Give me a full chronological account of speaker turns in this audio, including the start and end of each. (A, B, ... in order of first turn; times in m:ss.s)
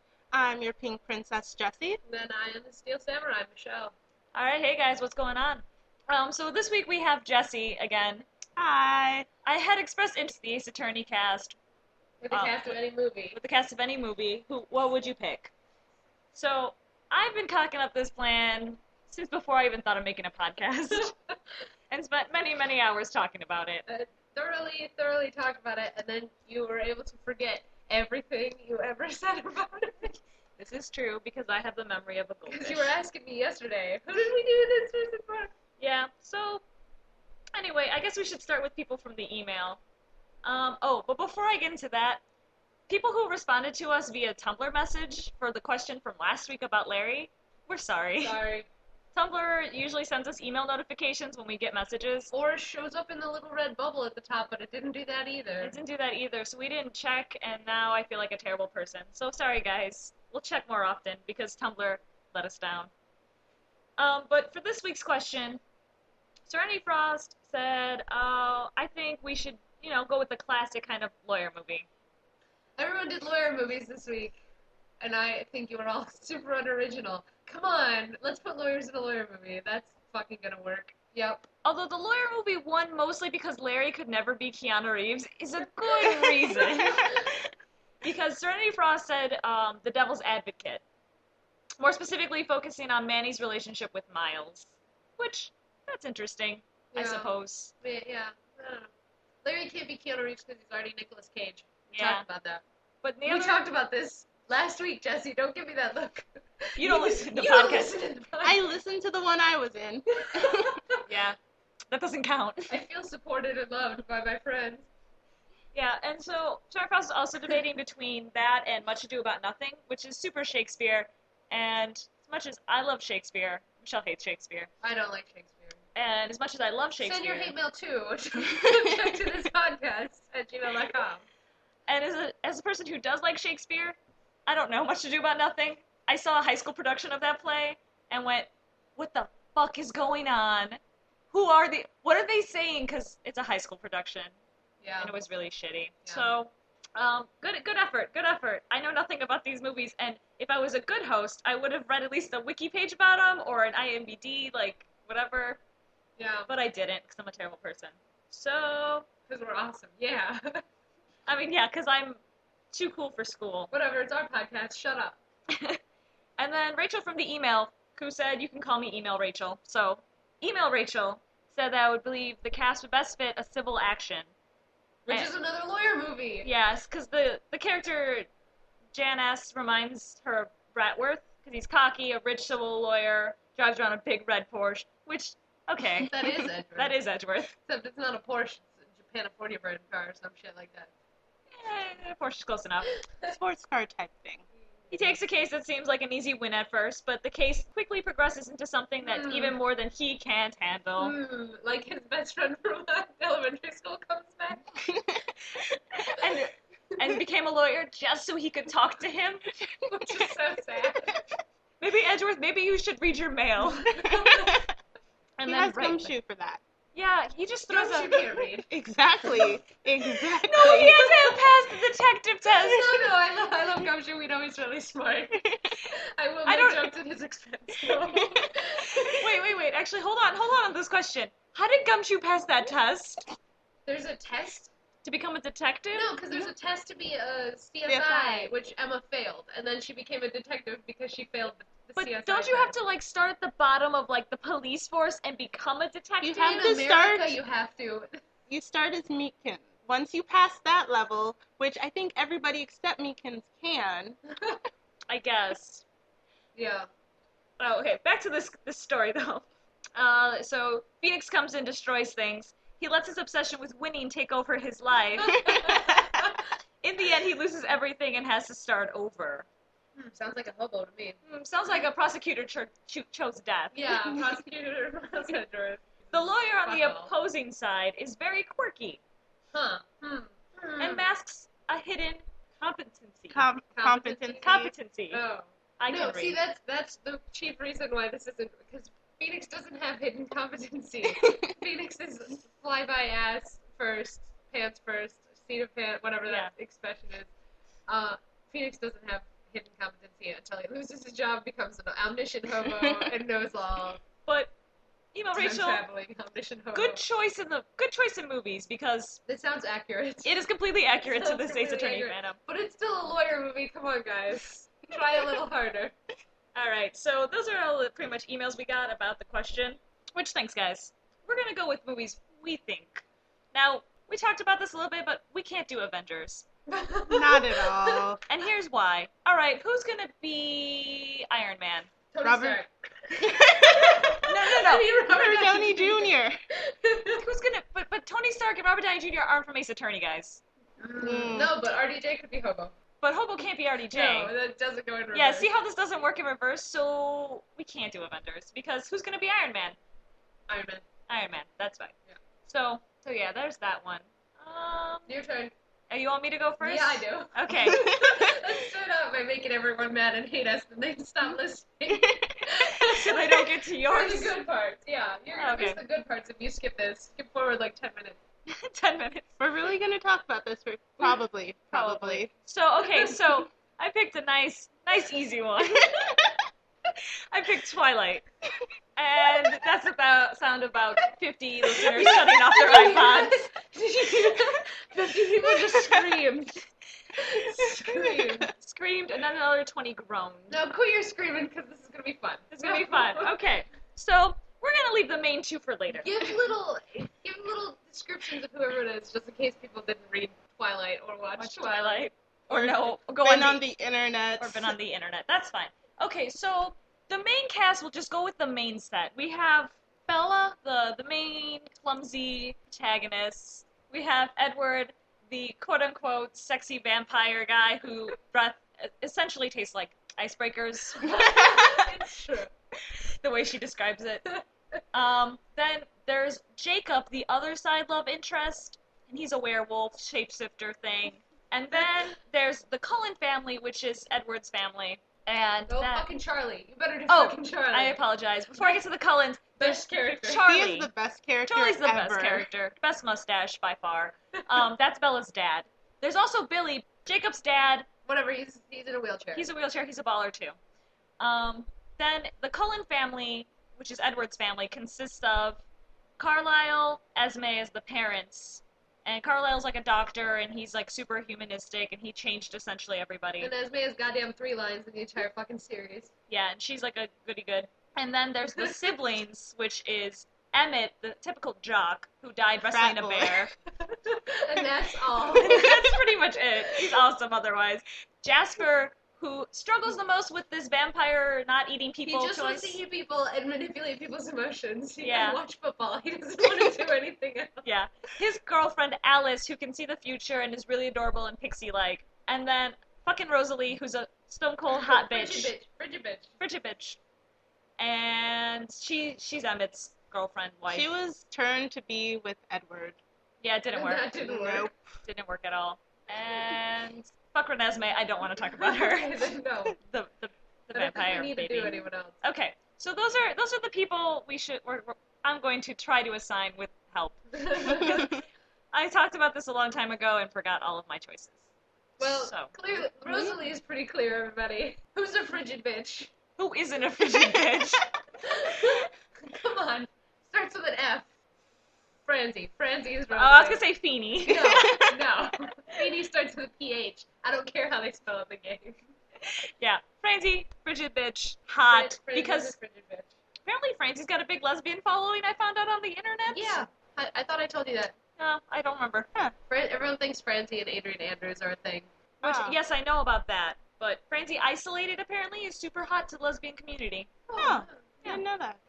0:00.3-0:02.0 A
0:02.0-0:03.9 B
0:04.3-0:08.2 C
0:08.6-0:09.3 A
0:09.4-0:11.6 C
0:12.2-0:13.4 B
0:12.3-0:12.8 C
0:13.3-0:15.5 C
0:16.3-0:21.1 C
0:21.9-0:23.8 C
0:23.9-0:30.2 B
0:30.6-0:32.9 C
0:32.5-0:35.5 B
0:35.8-0:36.6 C
0:37.5-0:39.8 C
0:40.4-0:42.2 C
0:42.9-0:48.4 C
0:48.2-0:48.7 B
0:49.1-0:52.3 C
0:52.3-0:55.7 B
0:55.6-1:02.9 C
1:04.0-1:05.6 C
1:06.5-1:11.8 C
1:12.8-1:14.4 B
1:15.0-1:21.4 B
1:21.6-1:27.2 C
1:26.1-1:27.4 B
1:28.0-1:30.8 C
1:31.8-1:37.7 C
1:36.9-1:38.9 B
1:39.4-1:42.6 B
1:41.9-1:42.2 C
1:43.0-1:43.6 C
1:43.2-1:48.6 B
1:46.8-1:47.9 C
1:48.4-1:50.8 A
1:50.1-1:51.0 B
1:51.0-1:51.4 C
1:51.9-1:52.7 C
1:52.7-1:54.9 B
1:55.7-2:04.7 C
2:04.8-2:05.8 B
2:05.9-2:07.5 C
2:07.0-2:11.2 B
2:11.9-2:20.8 C
2:21.3-2:24.3 C
2:24.8-2:25.1 B
2:25.0-2:35.6 C
2:26.0-2:26.3 B
2:36.2-2:36.5 B
2:36.5-2:39.1 C
2:39.3-2:40.6 B
2:41.3-2:42.2 C
2:42.7-2:43.7 C
2:43.7-2:45.2 B
2:45.5-2:45.8 C
2:46.4-2:54.3 C
2:55.1-2:56.5 B
2:56.4-2:58.3 C
2:58.9-3:07.5 C
3:06.0-3:07.0 B
3:07.6-3:10.9 B
3:11.5-3:12.9 C
3:13.3-3:14.4 A
3:14.8-3:15.1 B
3:14.9-3:21.1 C
3:19.0-3:19.6 B
3:21.0-3:24.6 B
3:24.8-3:25.3 A
3:26.0-3:29.4 C
3:29.8-3:31.2 B
3:31.8-3:33.9 C
3:33.9-3:34.6 B
3:33.9-3:34.7 A
3:35.4-3:36.1 C
3:35.4-3:36.6 A
3:36.9-3:38.4 C
3:37.7-3:38.7 B
3:38.7-3:41.4 A
3:40.3-3:43.0 C
3:42.5-3:49.2 B
3:46.4-3:46.9 C
3:48.1-3:48.5 A
3:49.1-3:53.2 C
3:53.9-3:54.7 B
3:55.0-3:56.2 C
3:55.9-4:02.7 B
3:57.9-3:58.5 A
4:02.0-4:06.5 C
4:06.2-4:07.4 A
4:06.3-4:08.2 B
4:08.5-4:14.2 A
4:14.3-4:14.6 B
4:15.1-4:15.8 C
4:16.6-4:16.9 B
4:17.6-4:25.9 C
4:25.2-4:26.4 B
4:26.8-4:29.4 C
4:30.0-4:31.9 B
4:31.2-4:33.9 C
4:33.7-4:37.1 B
4:36.1-4:39.0 C
4:39.5-4:41.0 B
4:40.8-4:43.4 C
4:43.3-4:44.7 A
4:43.7-4:44.4 B
4:44.4-4:45.2 C
4:45.1-4:57.3 B
4:45.8-4:46.4 C
4:56.2-4:56.5 C
4:57.9-5:04.0 B
5:04.3-5:04.5 C
5:05.1-5:05.8 C
5:05.3-5:07.0 B
5:06.7-5:09.2 C
5:09.2-5:10.3 B
5:10.2-5:12.4 C
5:11.0-5:15.9 B
5:16.5-5:26.4 C
5:26.7-5:28.0 B
5:27.1-5:28.2 A
5:28.3-5:31.9 C
5:32.1-5:37.2 B
5:32.2-5:32.6 A
5:33.2-5:34.1 A
5:34.2-5:34.9 C
5:35.1-5:36.4 A
5:37.2-5:40.4 C
5:40.8-5:42.7 B
5:41.0-5:41.5 A
5:43.0-5:44.3 C
5:43.9-5:45.5 B
5:45.1-5:49.8 C
5:50.5-5:50.8 B
5:51.1-5:51.9 C
5:52.4-5:55.1 C
5:55.1-5:55.5 B
5:55.9-5:57.9 C
5:56.6-6:08.2 B
5:57.6-5:58.2 A
6:01.9-6:02.4 A
6:02.8-6:04.3 C
6:05.3-6:05.8 C
6:08.5-6:09.3 C
6:09.4-6:12.3 A
6:11.7-6:16.2 C
6:17.3-6:18.2 C
6:19.0-6:23.4 C
6:21.9-6:22.2 A
6:22.0-6:26.6 B
6:27.2-6:28.5 B
6:27.6-6:28.5 A
6:28.6-6:30.6 C
6:30.5-6:33.3 B
6:32.5-6:36.1 C
6:35.9-6:42.1 B
6:41.4-6:43.6 C
6:42.5-6:44.8 A
6:44.4-7:01.5 C
7:01.0-7:02.5 B
7:03.2-7:04.2 C
7:04.9-7:16.1 C
7:15.7-7:18.0 B
7:17.1-7:20.9 C
7:19.6-7:20.5 B
7:20.4-7:22.5 A
7:21.4-7:27.9 C
7:28.0-7:29.5 B
7:29.4-7:30.6 C
7:31.2-7:35.6 C
7:36.2-7:43.5 C
7:43.4-7:46.1 B
7:46.3-7:53.5 C
7:48.5-7:48.9 B
7:52.7-7:53.5 A
7:53.8-7:55.8 B
7:55.3-8:02.8 C
7:55.5-7:55.8 A
8:02.0-8:07.7 B
8:05.0-8:05.4 C
8:07.6-8:15.5 C
8:14.7-8:16.3 B
8:16.4-8:17.0 C
8:17.8-8:20.9 C
8:20.7-8:23.0 A
8:23.4-8:24.1 C
8:23.7-8:24.7 B
8:24.2-8:24.7 A
8:25.0-8:29.3 C
8:28.6-8:29.8 B
8:29.8-8:41.4 C
8:30.7-8:32.2 B
8:37.3-8:38.1 B
8:42.0-8:42.5 C
8:42.0-8:46.1 B
8:46.4-8:47.8 C
8:48.2-8:51.1 B
8:52.0-8:53.6 B
8:53.1-8:54.9 C
8:54.2-8:58.8 B
8:54.3-8:54.9 A
8:59.2-9:02.5 C
9:01.7-9:03.1 B
9:03.4-9:06.6 C
9:06.3-9:07.9 B
9:08.2-9:09.1 C
9:09.5-9:11.9 B
9:12.2-9:17.1 C
9:12.2-9:12.6 A
9:17.3-9:17.8 B
9:17.4-9:18.6 A